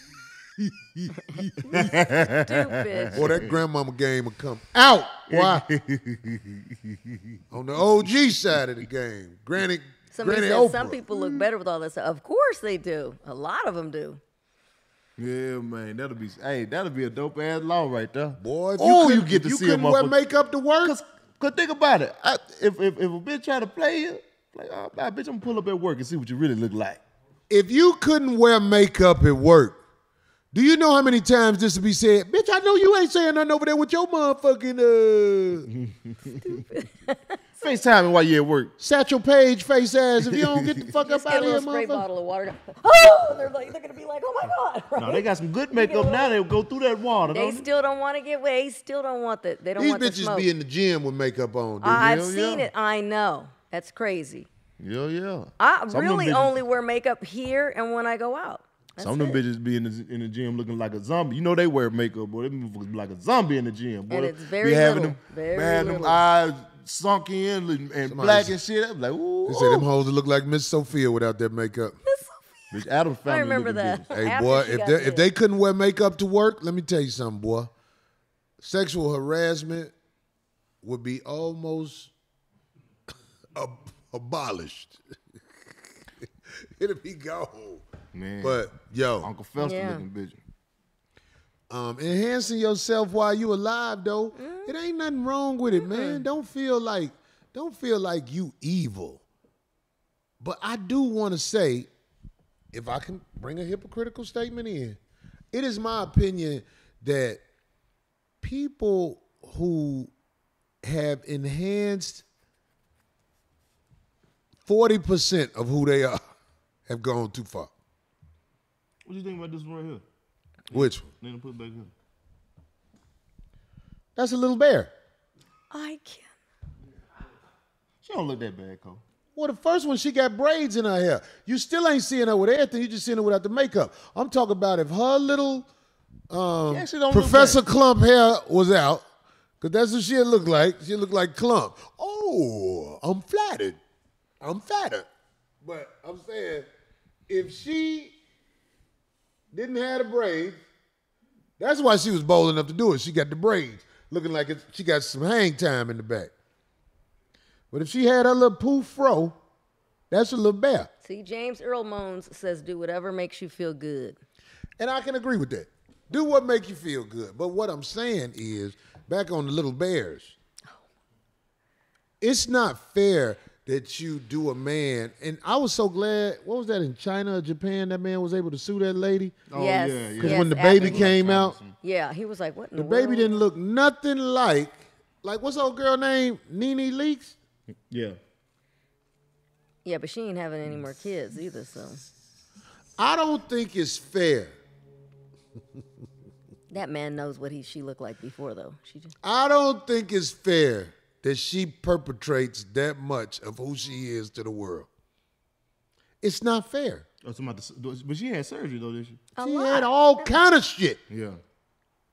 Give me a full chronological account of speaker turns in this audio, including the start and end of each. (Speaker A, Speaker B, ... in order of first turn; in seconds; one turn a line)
Speaker A: 0.6-2.0
Speaker B: 1.2-3.3
Speaker C: 1.7-3.5
Speaker A: 3.1-5.7
Speaker C: 5.3-7.4
Speaker A: 7.5-11.0
Speaker B: 10.1-14.2
Speaker C: 15.2-20.1
Speaker A: 18.4-21.0
Speaker C: 20.8-27.0
Speaker A: 27.5-29.8
Speaker A: 30.5-35.7
Speaker C: 35.7-36.6
Speaker B: 36.4-37.4
Speaker C: 37.6-38.7
Speaker A: 38.8-42.0
Speaker C: 40.2-40.9
Speaker B: 41.0-46.4
Speaker C: 45.0-47.6
Speaker B: 47.3-50.5
Speaker A: 49.8-52.1
Speaker B: 51.8-54.5
Speaker C: 51.9-52.7
Speaker C: 54.8-56.6
Speaker B: 55.6-59.4
Speaker C: 59.0-69.9
Speaker B: 64.1-66.2
Speaker A: 68.0-68.6
Speaker A: 69.5-72.0
Speaker B: 72.0-75.3
Speaker C: 72.7-74.2
Speaker A: 74.1-77.7
Speaker A: 78.6-79.9
Speaker A: 80.8-82.1
Speaker A: 83.5-85.0
Speaker A: 85.5-87.8
Speaker C: 88.1-88.6
Speaker A: 88.4-89.3
Speaker C: 89.2-90.4
Speaker B: 89.6-90.0
Speaker A: 91.7-99.2
Speaker B: 94.3-94.7
Speaker B: 95.7-96.2
Speaker A: 100.4-101.9
Speaker A: 102.7-105.0
Speaker A: 105.5-107.4
Speaker A: 108.4-110.1
Speaker A: 110.8-112.2
Speaker A: 114.7-116.2
Speaker A: 116.9-117.7
Speaker C: 119.0-120.0
Speaker A: 120.7-121.1
Speaker C: 120.7-121.9
Speaker A: 124.2-124.9
Speaker B: 125.7-126.3
Speaker C: 128.0-129.0
Speaker A: 129.3-135.7
Speaker A: 136.3-139.1
Speaker C: 136.7-137.6
Speaker A: 139.6-143.8
Speaker A: 144.4-145.1
Speaker A: 145.6-146.7
Speaker A: 147.3-148.1
Speaker A: 149.5-150.6
Speaker A: 151.6-156.3
Speaker A: 157.7-159.4
Speaker A: 160.1-160.9
Speaker B: 161.0-164.2
Speaker A: 164.8-170.4
Speaker A: 172.2-179.4
Speaker C: 179.5-181.7
Speaker B: 179.5-181.1
Speaker A: 180.2-181.6
Speaker B: 181.8-183.4
Speaker A: 182.8-187.4
Speaker C: 187.9-188.2
Speaker B: 189.8-192.0
Speaker A: 193.0-194.5
Speaker B: 196.7-199.1
Speaker A: 199.2-204.9
Speaker A: 206.2-207.1
Speaker C: 207.2-209.3
Speaker B: 209.3-210.3
Speaker A: 209.4-211.0
Speaker C: 211.1-211.4